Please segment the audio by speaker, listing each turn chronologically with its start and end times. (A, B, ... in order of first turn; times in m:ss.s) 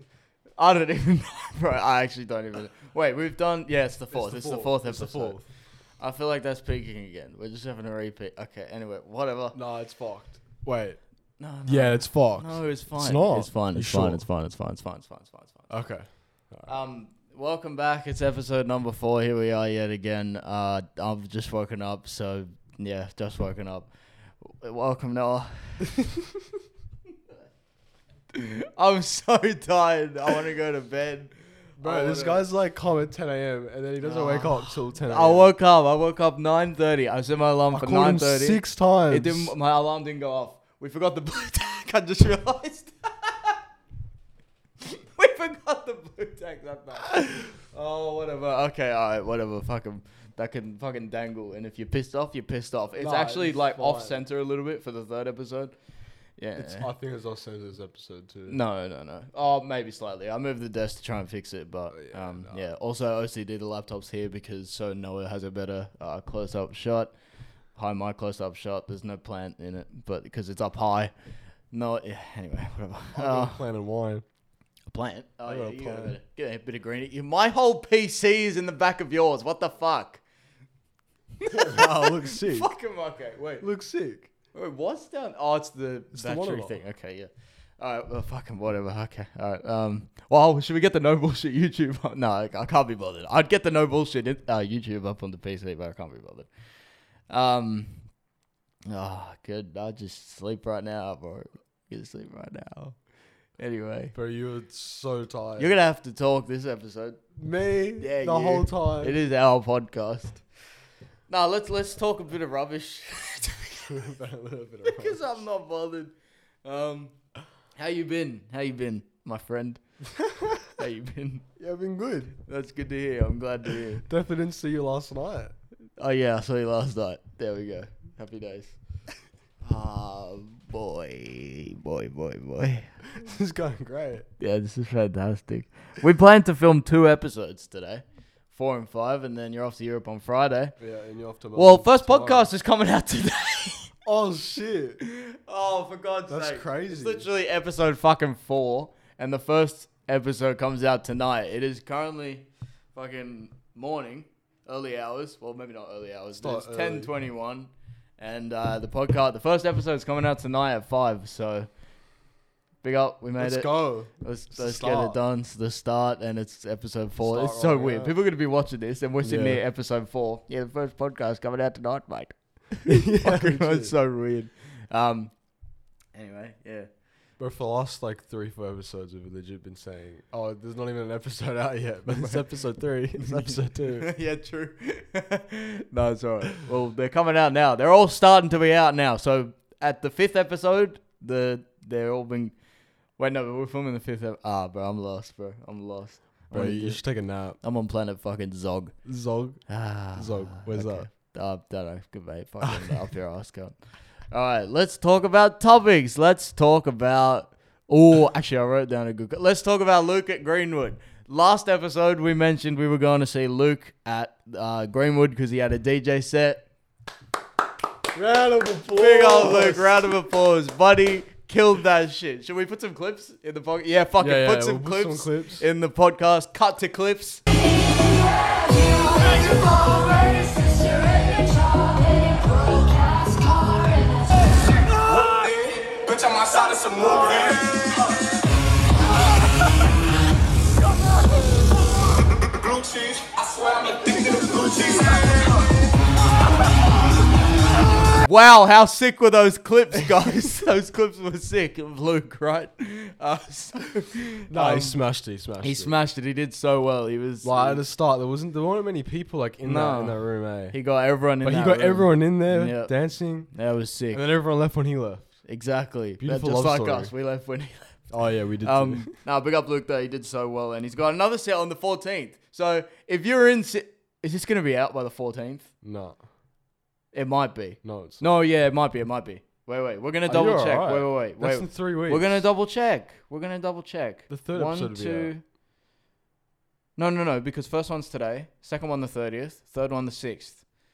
0:00.6-0:05.4 A
0:04.1-0:05.4 B
0:06.0-0:09.6 A
0:09.5-0:11.0 B
0:11.4-0:15.7 A
0:11.6-0:14.2 B
0:15.7-0:16.7 B
0:16.6-0:25.9 A
0:28.3-0:32.4 A
0:31.8-0:35.5 B
0:34.0-0:43.5 A
0:37.7-0:39.5 B
0:44.8-0:55.8 A
0:53.0-0:54.2 B
0:56.4-0:56.9 A
0:56.6-0:58.6 B
0:58.5-1:07.1 A
1:01.9-1:02.6 B
1:07.7-1:11.1 A
1:11.7-1:13.6 A
1:13.1-1:14.2 B
1:14.9-1:20.2 A
1:15.5-1:16.2 B
1:21.4-1:23.7 A
1:21.5-1:22.7 B
1:23.6-1:24.3 B
1:24.5-1:36.5 A
1:26.1-1:26.8 B
1:37.3-1:38.1 A
1:38.9-1:43.0 A
1:43.5-1:44.1 A
1:44.1-1:45.8 B
1:45.6-1:47.3 A
1:47.4-1:49.1 B
1:48.0-1:50.4 A
1:51.3-1:53.9 A
1:53.9-1:55.4 B
1:54.8-1:57.1 A
1:57.8-1:59.8 A
2:00.7-2:01.4 A
2:01.6-2:02.3 B
2:02.5-2:04.0 A
2:04.1-2:05.5 B
2:06.0-2:08.8 A
2:09.6-2:12.9 A
2:13.2-2:14.2 B
2:14.4-2:20.8 A
2:20.8-2:22.5 B
2:21.5-2:23.9 A
2:24.0-2:25.0 B
2:25.0-2:41.7 A
2:26.3-2:27.3 B
2:36.3-2:37.1 B
2:42.8-2:55.6 A
2:43.4-2:45.2 B
2:47.2-2:48.2 B
2:49.2-2:49.6 B
2:52.9-2:53.9 B
2:56.1-2:56.9 A
2:57.4-3:04.1 B
3:02.1-3:02.6 A
3:03.2-3:12.6 A
3:13.1-3:19.0 A
3:16.5-3:17.6 B
3:19.0-3:21.1 B
3:19.7-3:36.7 A
3:22.6-3:22.9 B
3:38.1-3:40.0 B
3:38.9-3:47.4 A
3:44.2-3:45.6 B
3:50.2-3:53.4 C
3:55.9-3:57.6 C
4:03.6-4:05.1 C
4:08.2-4:15.0 A
4:14.5-4:15.9 B
4:15.6-4:17.8 A
4:17.4-4:20.8 B
4:19.6-4:24.2 A
4:21.4-4:23.5 B
4:24.1-4:25.4 B
4:25.4-4:35.7 A
4:26.2-4:27.1 B
4:28.1-4:29.2 B
4:35.8-4:36.2 B
4:37.1-4:45.4 A
4:37.8-4:38.3 B
4:40.2-4:42.4 B
4:44.3-4:45.3 B
4:47.0-4:50.6 A